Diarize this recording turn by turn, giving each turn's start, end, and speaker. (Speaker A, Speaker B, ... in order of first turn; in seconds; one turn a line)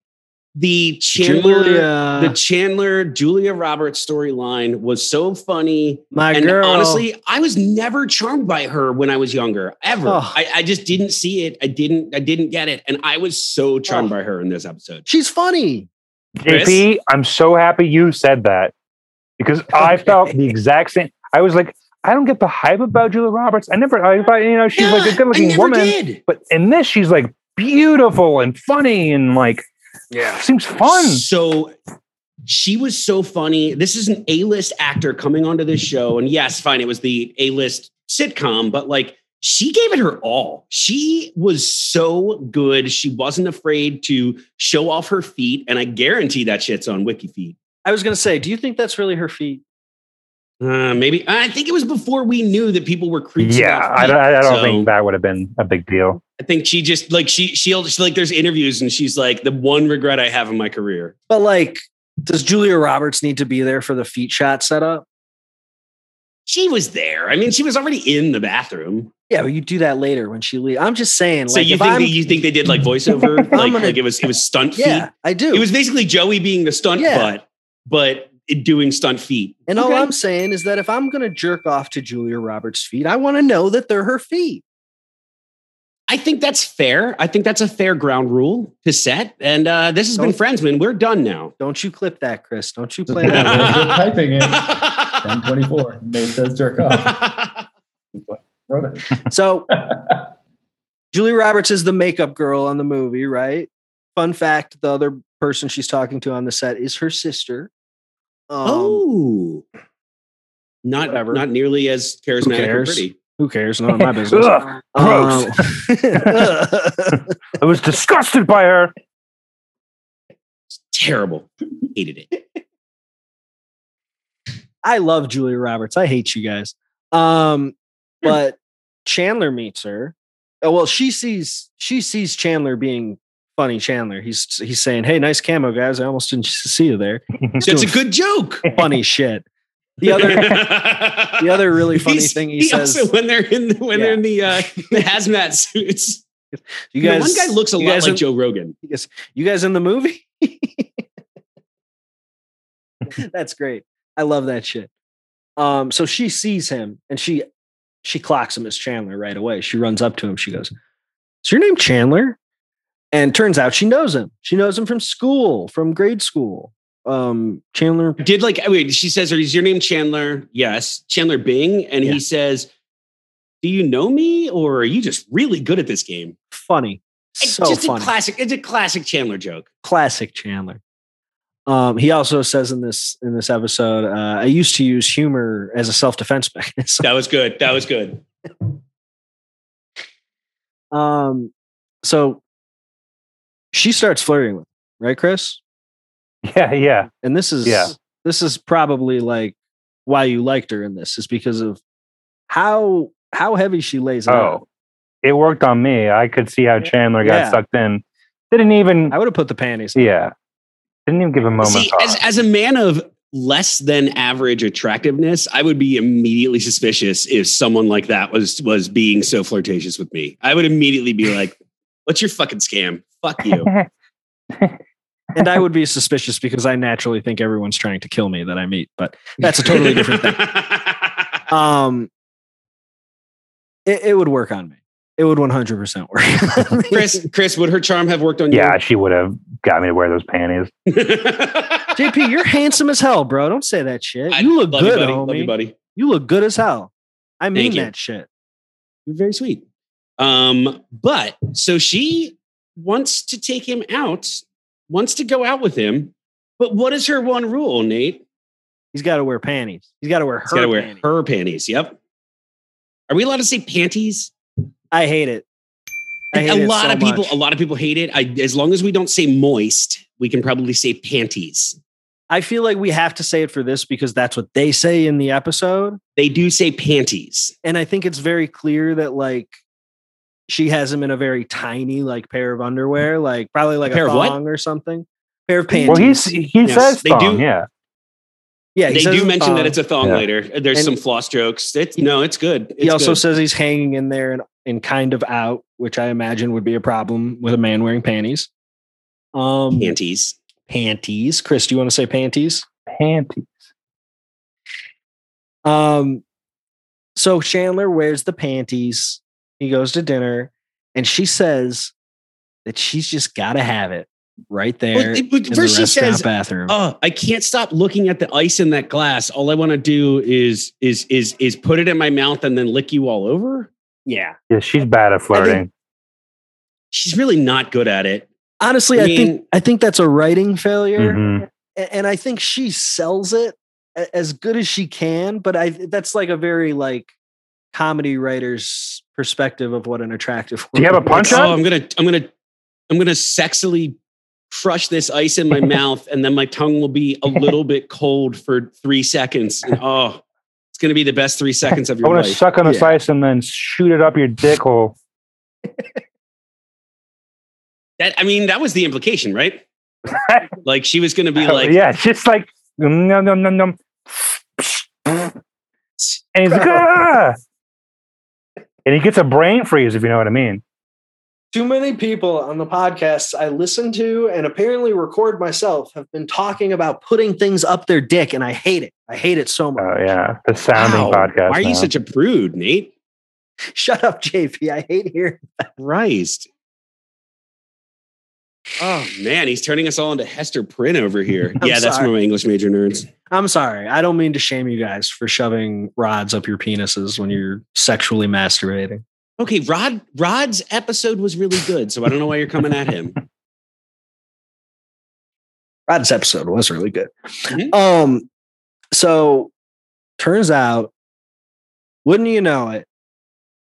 Speaker A: 0.6-15.1
Speaker B: 1.2-2.4
Speaker B: 6.1-7.0
Speaker B: 10.1-10.4
Speaker B: 13.9-14.1
Speaker B: 15.1-15.9
Speaker C: 16.4-18.7
Speaker A: 16.5-16.8
Speaker C: 19.4-29.7
Speaker A: 24.8-26.2
Speaker B: 30.1-30.4
Speaker C: 30.3-31.2
Speaker A: 30.8-31.7
Speaker A: 32.5-47.6
Speaker B: 47.9-49.6
Speaker A: 50.6-54.9
Speaker C: 53.4-56.2
Speaker A: 56.4-61.1
Speaker B: 61.3-65.0
Speaker A: 66.5-69.1
Speaker B: 69.3-72.2
Speaker A: 71.5-80.1
Speaker B: 73.5-74.0
Speaker B: 74.8-75.7
Speaker B: 77.0-77.3
Speaker B: 79.7-84.6
Speaker A: 86.1-91.5
Speaker B: 91.6-93.9
Speaker D: 93.1-97.2
Speaker A: 93.3-95.3
Speaker A: 96.9-97.7
Speaker D: 98.2-100.3
Speaker B: 99.3-99.7
Speaker B: 101.1-107.7
Speaker B: 108.5-109.0
Speaker A: 108.7-109.6
Speaker A: 110.8-113.2
Speaker B: 111.0-111.4
Speaker B: 112.4-117.2
Speaker C: 114.0-116.6
Speaker C: 117.6-118.9
Speaker A: 120.9-122.3
Speaker B: 124.8-138.0
Speaker C: 137.4-137.7
Speaker A: 137.6-138.7
Speaker B: 138.7-139.4
Speaker B: 140.0-140.6
Speaker A: 140.0-146.2
Speaker B: 141.4-143.1
Speaker B: 143.9-144.9
Speaker B: 146.5-148.2
Speaker A: 147.0-148.8
Speaker B: 148.8-151.0
Speaker B: 153.1-154.9
Speaker B: 155.6-157.5
Speaker B: 158.0-160.7
Speaker B: 161.4-162.4
Speaker B: 163.1-168.2
Speaker A: 168.2-172.7
Speaker A: 173.6-176.4
Speaker B: 176.5-178.1
Speaker A: 177.4-179.7
Speaker B: 179.8-180.8
Speaker B: 181.7-187.1
Speaker A: 187.0-188.2
Speaker B: 190.9-191.5
Speaker B: 192.0-192.4
Speaker B: 193.7-195.6
Speaker C: 196.4-197.1
Speaker B: 197.2-201.8
Speaker C: 197.7-197.9
Speaker B: 202.5-204.6
Speaker C: 204.3-204.6
Speaker C: 205.2-209.2
Speaker B: 207.2-207.6
Speaker B: 209.1-210.1
Speaker C: 210.0-210.3
Speaker C: 211.1-212.2
Speaker A: 211.6-223.7
Speaker C: 223.5-223.9
Speaker C: 224.5-224.8
Speaker B: 225.3-230.4
Speaker A: 229.6-231.3
Speaker B: 231.5-232.1
Speaker B: 233.9-237.2
Speaker A: 236.9-238.8
Speaker C: 238.5-240.7
Speaker A: 240.9-242.1
Speaker B: 241.9-248.3
Speaker A: 244.3-245.8
Speaker A: 247.6-247.9
Speaker A: 249.1-249.6
Speaker A: 250.2-258.2
Speaker B: 258.9-261.0
Speaker A: 260.5-262.0
Speaker A: 263.1-264.3
Speaker B: 264.9-265.5
Speaker B: 266.3-267.4
Speaker A: 266.3-271.8
Speaker B: 272.3-276.0
Speaker A: 276.2-277.5
Speaker B: 277.6-279.6
Speaker B: 280.5-286.3
Speaker A: 283.9-284.4
Speaker C: 285.9-287.7
Speaker A: 286.6-287.4
Speaker B: 288.8-289.8
Speaker A: 288.9-293.2
Speaker B: 292.8-298.5
Speaker B: 299.4-299.9
Speaker A: 299.7-300.4
Speaker B: 300.7-302.7
Speaker C: 302.9-303.6
Speaker B: 305.6-306.2
Speaker B: 307.2-311.9
Speaker B: 312.6-316.8
Speaker A: 314.9-323.7
Speaker B: 324.1-324.4
Speaker C: 324.5-325.7
Speaker B: 325.3-325.6
Speaker A: 326.9-328.3
Speaker B: 328.6-331.2
Speaker A: 328.9-329.4
Speaker C: 331.0-331.4
Speaker B: 331.8-337.1
Speaker B: 337.7-341.5
Speaker C: 340.8-341.6
Speaker A: 341.1-342.3
Speaker A: 342.9-344.0
Speaker A: 344.5-350.2
Speaker A: 350.7-352.4
Speaker C: 352.0-355.0
Speaker B: 352.6-353.0
Speaker A: 358.0-359.6
Speaker C: 360.1-360.5
Speaker A: 360.6-361.8
Speaker C: 361.4-365.3
Speaker C: 366.3-367.4
Speaker B: 366.5-366.9
Speaker C: 368.9-370.6
Speaker B: 371.5-380.1
Speaker C: 379.8-381.9
Speaker A: 380.8-382.9
Speaker B: 383.7-385.7
Speaker A: 385.8-386.5
Speaker A: 388.8-393.1
Speaker B: 391.6-392.1
Speaker B: 393.3-399.0
Speaker A: 399.4-403.2
Speaker B: 405.9-408.3
Speaker B: 408.9-409.5
Speaker B: 410.2-410.9
Speaker B: 412.1-412.9